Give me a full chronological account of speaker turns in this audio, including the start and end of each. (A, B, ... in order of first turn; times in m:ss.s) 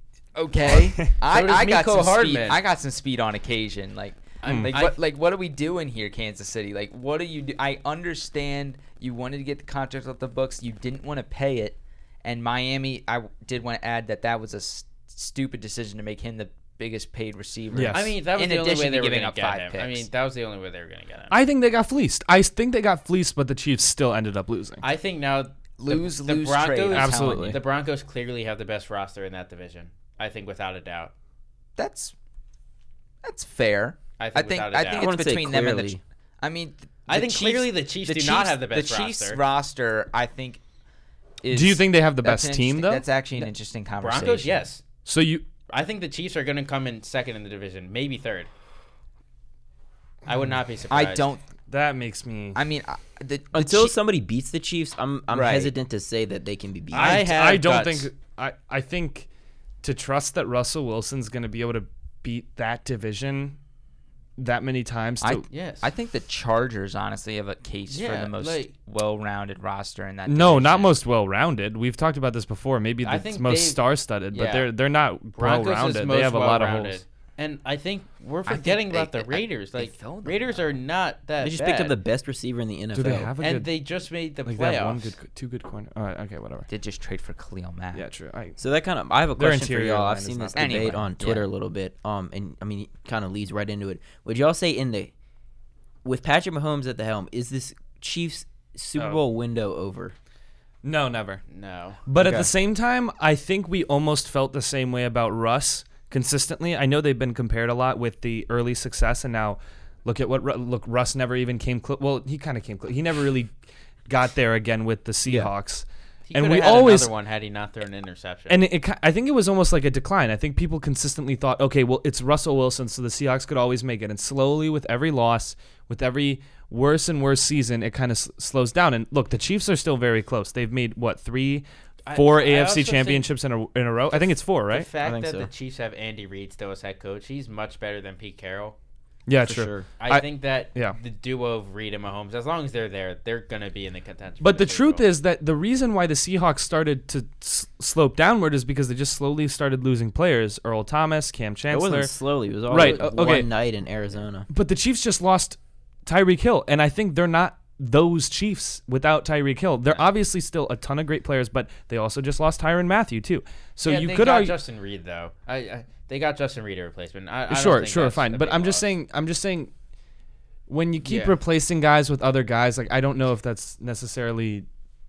0:00.4-0:20.1 A
0:01.3-0:02.6 B
0:04.4-0:05.0 B
0:04.4-0:04.7 C
0:17.7-0:18.1 C
0:17.9-0:21.4 B
0:21.3-0:24.8 C
0:24.8-0:31.1 B
0:25.8-0:27.6 A
0:26.9-0:27.6 C
0:31.8-0:32.1 A
0:33.2-0:40.6 A
0:34.2-0:35.1 B
0:34.9-0:36.0 D
0:37.1-0:39.4 B
0:41.4-0:44.6 A
0:41.5-0:43.0 C
0:43.4-0:44.8 B
0:45.0-0:45.4 C
0:45.7-0:48.5 B
0:50.3-0:51.3 B
0:50.9-0:51.4 A
0:51.7-0:52.6 C
0:52.6-0:53.9 A
0:53.5-0:57.2 D
0:55.3-0:55.7 A
0:56.9-0:58.1 B
0:56.9-0:59.3 C
0:59.8-1:03.6 C
1:04.4-1:05.4 C
1:05.2-1:11.0 A
1:05.5-1:05.9 B
1:07.9-1:08.7 B
1:10.3-1:17.0 C
1:13.0-1:13.8 B
1:14.3-1:14.7 B
1:15.4-1:22.0 B
1:18.4-1:20.8 A
1:21.4-1:23.3 D
1:22.9-1:23.7 C
1:23.4-1:25.2 B
1:24.4-1:26.7 C
1:26.7-1:28.0 A
1:27.9-1:28.6 C
1:28.6-1:35.1 D
1:29.4-1:31.0 C
1:30.6-1:31.5 A
1:36.0-1:40.1 D
1:40.8-1:41.4 C
1:41.5-1:42.0 B
1:42.1-1:53.5 C
1:42.2-1:42.5 D
1:54.1-1:57.1 C
1:55.2-1:55.5 D
1:56.3-1:58.6 B
1:58.5-2:14.9 C
2:12.1-2:13.3 B
2:14.1-2:18.8 B
2:15.0-2:15.5 D
2:19.3-2:21.0 C
2:19.4-2:19.9 D
2:20.0-2:25.1 B
2:24.4-2:32.1 C
2:31.7-2:34.5 D
2:32.7-2:33.5 C
2:32.7-2:33.3 B
2:34.5-2:44.6 C
2:43.8-2:48.9 B
2:47.5-2:49.7 C
2:50.7-2:54.6 C
2:51.0-2:51.4 B